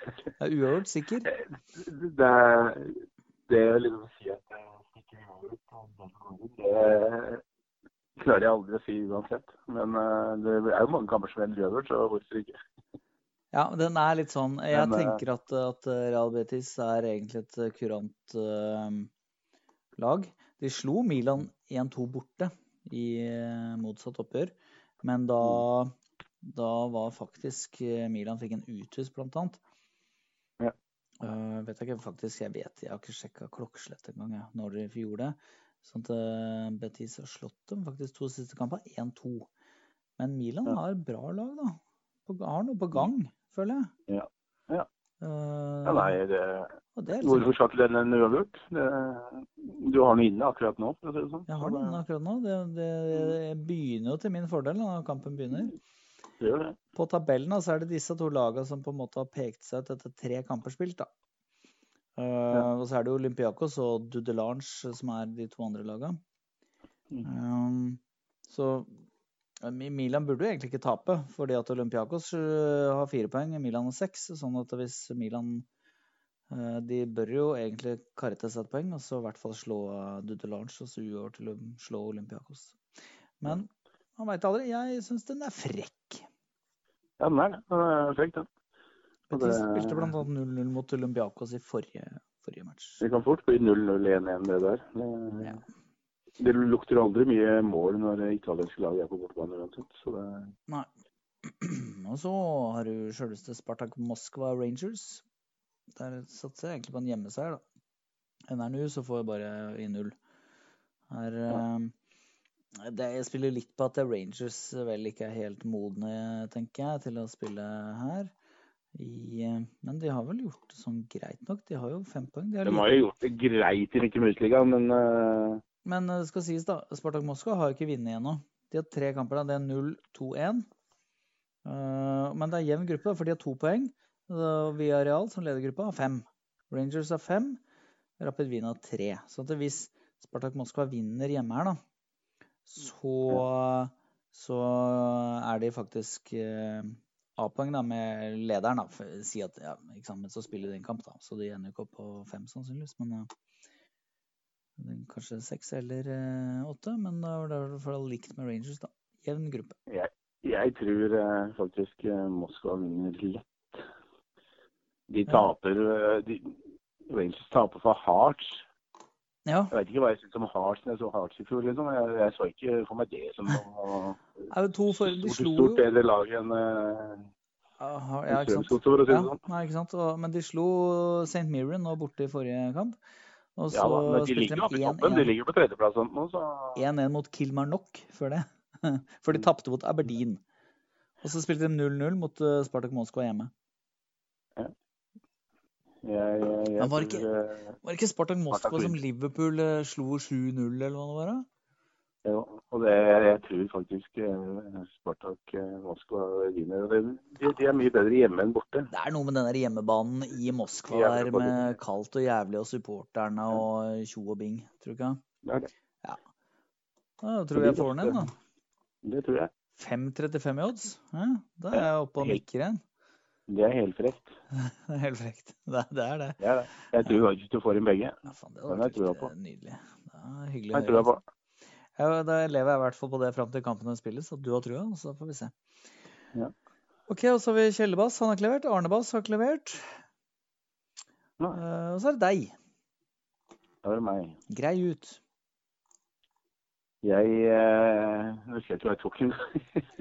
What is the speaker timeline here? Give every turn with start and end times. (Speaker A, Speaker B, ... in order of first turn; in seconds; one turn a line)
Speaker A: 0.4-1.3
Speaker B: 1.3-7.4
Speaker B: 8.2-12.6
Speaker A: 13.5-19.1
Speaker B: 14.7-15.2
Speaker A: 20.0-29.6
Speaker A: 31.2-39.5
Speaker A: 40.2-43.9
Speaker B: 44.1-44.9
Speaker A: 45.2-46.2
Speaker B: 45.9-52.0
Speaker A: 47.0-47.5
Speaker A: 51.5-55.8
Speaker B: 56.4-56.8
Speaker A: 57.0-61.1
Speaker A: 62.2-66.2
Speaker A: 67.2-69.0
Speaker A: 69.6-75.7
Speaker A: 76.5-82.8
Speaker A: 83.4-86.3
Speaker B: 87.2-88.5
Speaker A: 89.3-93.0
Speaker B: 89.3-90.2
Speaker B: 93.0-95.6
Speaker B: 96.4-100.5
Speaker A: 101.4-105.2
Speaker A: 106.0-107.6
Speaker A: 108.5-110.2
Speaker A: 111.1-111.9
Speaker A: 112.8-118.3
Speaker A: 119.0-122.9
Speaker B: 122.7-125.6
Speaker A: 125.9-130.7
Speaker A: 131.7-137.6
Speaker A: 138.2-141.8
Speaker A: 142.7-153.3
Speaker A: 154.8-159.8
Speaker B: 159.9-163.8
Speaker B: 165.1-166.6
Speaker B: 167.1-168.6
Speaker A: 169.5-169.7
Speaker B: 169.7-174.2
Speaker A: 174.5-175.8
Speaker B: 175.0-177.3
Speaker A: 177.8-183.0
Speaker B: 178.3-179.4
Speaker A: 183.6-185.3
Speaker B: 183.7-186.8
Speaker A: 186.8-190.4
Speaker A: 191.2-193.5
Speaker B: 196.0-197.7
Speaker A: 196.8-197.3
Speaker A: 197.8-201.5
Speaker B: 198.5-199.0
Speaker B: 202.2-208.9
Speaker A: 208.9-215.2
Speaker B: 210.9-211.8
Speaker B: 215.4-215.7
Speaker A: 217.2-218.3
Speaker B: 217.6-218.3
Speaker B: 219.0-219.5
Speaker A: 219.8-222.8
Speaker B: 221.7-222.4
Speaker B: 223.5-224.3
Speaker A: 224.5-226.4
Speaker B: 226.4-229.3
Speaker A: 228.3-231.2
Speaker B: 230.7-231.2
Speaker A: 232.0-235.5
Speaker A: 237.1-240.0
Speaker A: 241.5-242.5
Speaker B: 243.8-244.4
Speaker A: 244.5-245.2
Speaker B: 247.0-249.8